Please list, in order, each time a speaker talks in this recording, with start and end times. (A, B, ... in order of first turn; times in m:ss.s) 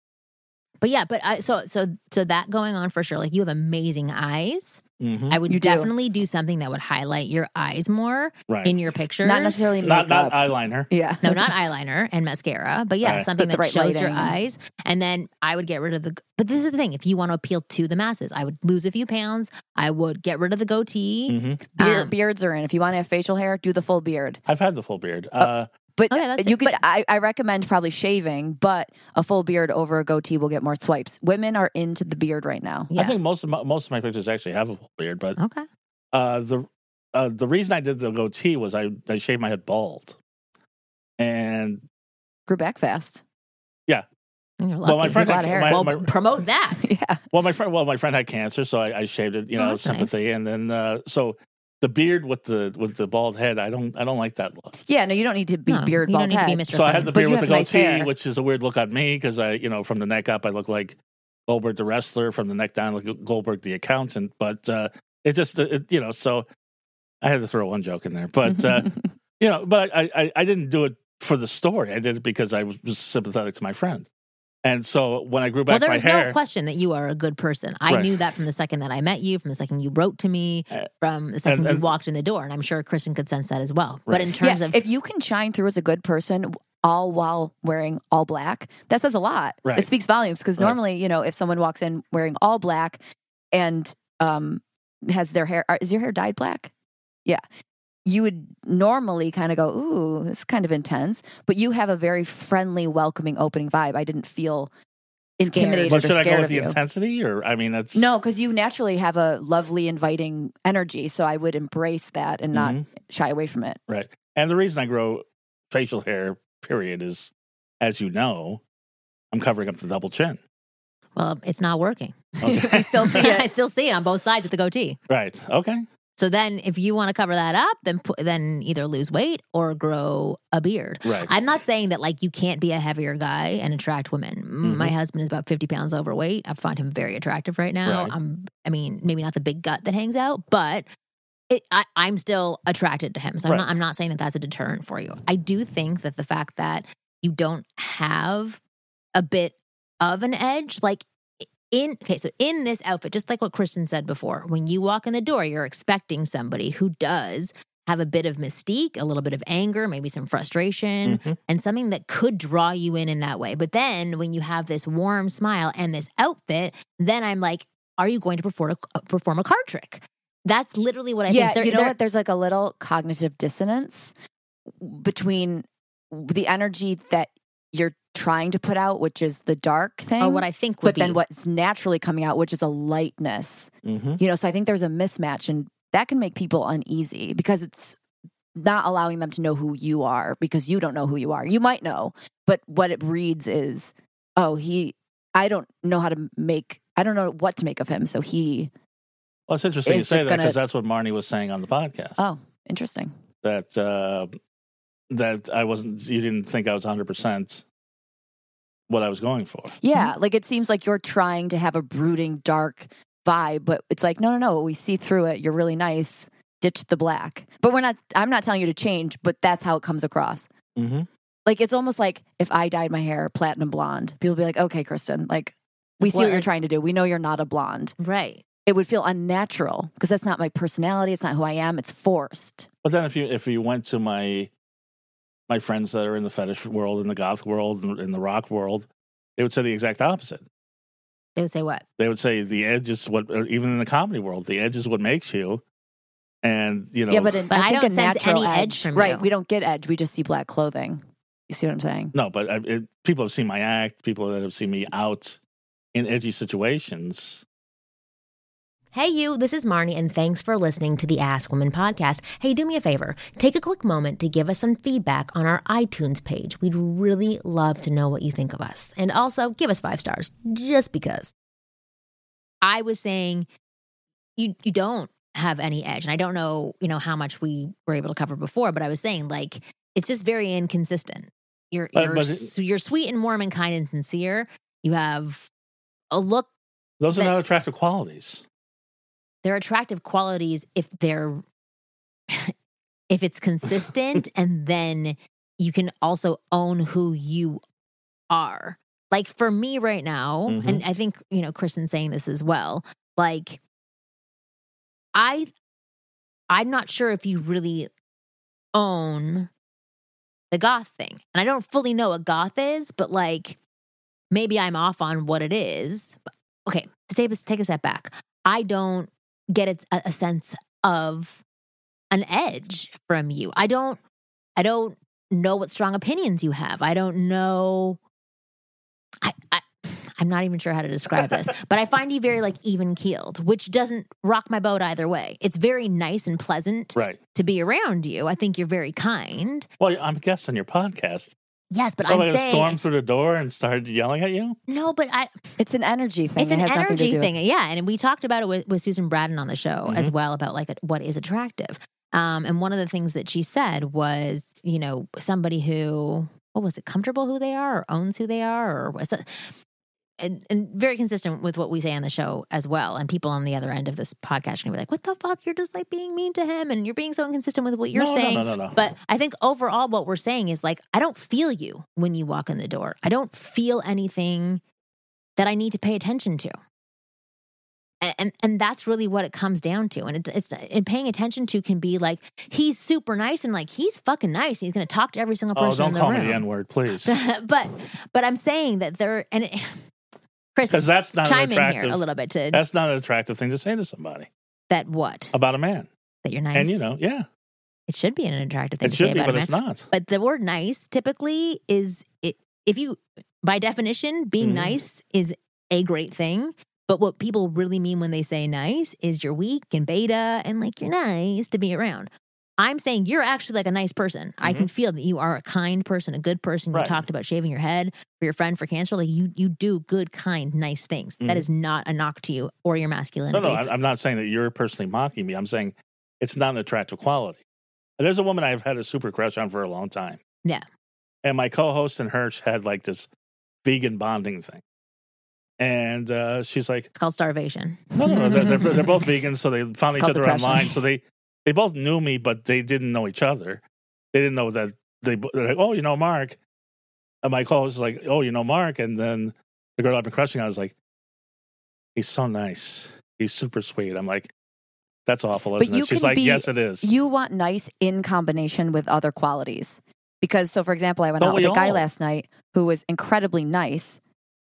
0:00.8-0:09.8 A
0:05.0-0:05.4 B
0:05.5-0:05.9 C
0:08.5-0:08.8 B
0:09.2-0:11.5 C
0:09.8-0:10.9 B
0:11.2-0:22.1 A
0:13.0-0:13.3 B
0:13.4-0:14.4 C
0:21.3-0:21.6 B
0:21.8-0:24.4 C
0:24.5-0:25.7 B
0:25.4-0:32.9 C
0:26.1-0:26.8 A
0:32.9-0:33.2 A
0:33.0-0:35.4 B
0:35.4-0:35.6 A
0:36.1-0:40.2 B
0:41.2-0:41.8 B
0:42.5-0:43.2 C
0:44.6-0:46.9 A
0:44.8-0:46.1 B
0:45.0-0:45.9 C
0:46.8-0:47.2 C
0:47.3-0:54.7 B
0:49.6-0:50.2 A
0:54.9-0:58.1 C
0:55.7-0:57.1 A
0:56.7-1:06.5 B
1:07.2-1:14.1 B
1:14.6-1:16.4 B
1:15.7-1:24.8 A
1:17.9-1:18.2 B
1:21.5-1:21.9 B
1:24.4-1:33.0 C
1:29.6-1:29.9 B
1:33.5-1:36.7 C
1:38.1-1:44.7 C
1:45.4-1:46.8 C
1:45.5-1:46.0 A
1:45.9-1:48.1 B
1:48.0-1:53.8 C
1:52.5-1:52.9 B
1:53.9-1:58.6 B
1:59.3-2:00.4 B
2:01.2-2:02.2 A
2:02.4-2:03.5 C
2:02.4-2:03.3 B
2:03.1-2:05.0 A
2:05.1-2:05.8 B
2:06.2-2:20.9 A
2:11.0-2:11.3 B
2:14.6-2:15.0 B
2:17.8-2:18.2 B
2:21.5-2:28.6 A
2:29.2-2:52.0 A
2:41.1-2:41.4 B
2:51.3-2:54.1 C
2:54.8-3:08.0 C
3:00.2-3:01.2 A
3:03.8-3:04.2 B
3:08.6-3:18.7 C
3:19.5-3:22.2 B
3:19.9-3:20.6 C
3:22.2-3:23.1 C
3:23.4-3:24.3 B
3:25.1-3:27.6 B
3:28.9-3:29.8 B
3:29.8-3:40.5 C
3:40.8-3:41.1 B
3:41.5-3:48.0 C
3:46.0-3:46.5 A
3:48.0-3:48.4 A
3:48.7-3:52.7 C
3:52.8-3:54.5 B
3:55.5-4:00.4 B
4:01.4-4:01.8 A
4:02.0-4:05.6 B
4:06.4-4:07.4 B
4:07.1-4:12.1 C
4:07.5-4:09.3 A
4:12.1-4:15.4 B
4:15.9-4:17.4 B
4:18.9-4:31.3 A
4:32.6-4:33.5 A
4:34.4-4:45.5 A
4:42.0-4:42.5 B
4:46.1-4:46.5 A
4:47.0-4:48.4 B
4:49.4-4:51.4 A
4:52.3-4:52.5 A
4:53.1-4:57.6 A
4:58.3-5:03.6 A
5:00.5-5:00.8 B
5:05.1-5:05.5 A
5:06.5-5:07.9 A
5:08.7-5:09.5 A
5:10.5-5:13.6 A
5:14.3-5:21.4 A
5:22.1-5:24.0 A
5:24.6-5:28.0 A
5:29.2-5:39.7 A
5:39.8-5:41.4 B
5:41.7-5:42.8 A
5:42.1-5:44.6 B
5:44.7-5:45.3 A
5:45.6-5:47.3 C
5:46.4-5:59.5 A
5:49.9-5:50.1 B
6:00.2-6:14.6 A
6:07.9-6:08.8 B
6:15.4-6:16.5 A
6:18.0-6:29.8 A
6:25.6-6:27.2 B
6:30.6-6:32.6 A
6:30.7-6:32.0 B
6:32.5-6:34.3 B
6:34.7-6:35.3 A
6:35.3-6:35.9 B
6:36.2-6:36.8 A
6:36.5-6:37.3 B
6:37.9-7:03.6 A
6:38.8-6:39.9 B
6:44.4-6:44.8 B
6:54.4-6:54.7 B
6:56.7-6:57.0 B
7:01.2-7:01.5 B
7:03.3-7:07.4 B
7:08.0-7:10.2 B
7:11.2-7:13.1 B
7:13.6-7:14.6 B
7:15.6-7:16.9 B
7:17.0-7:18.8 A
7:18.0-7:23.6 B
7:20.0-7:20.8 C
7:24.1-7:26.4 B
7:27.2-7:30.8 B
7:32.0-7:34.3 B
7:35.1-7:36.9 B
7:35.6-7:44.0 C
7:41.2-7:41.8 B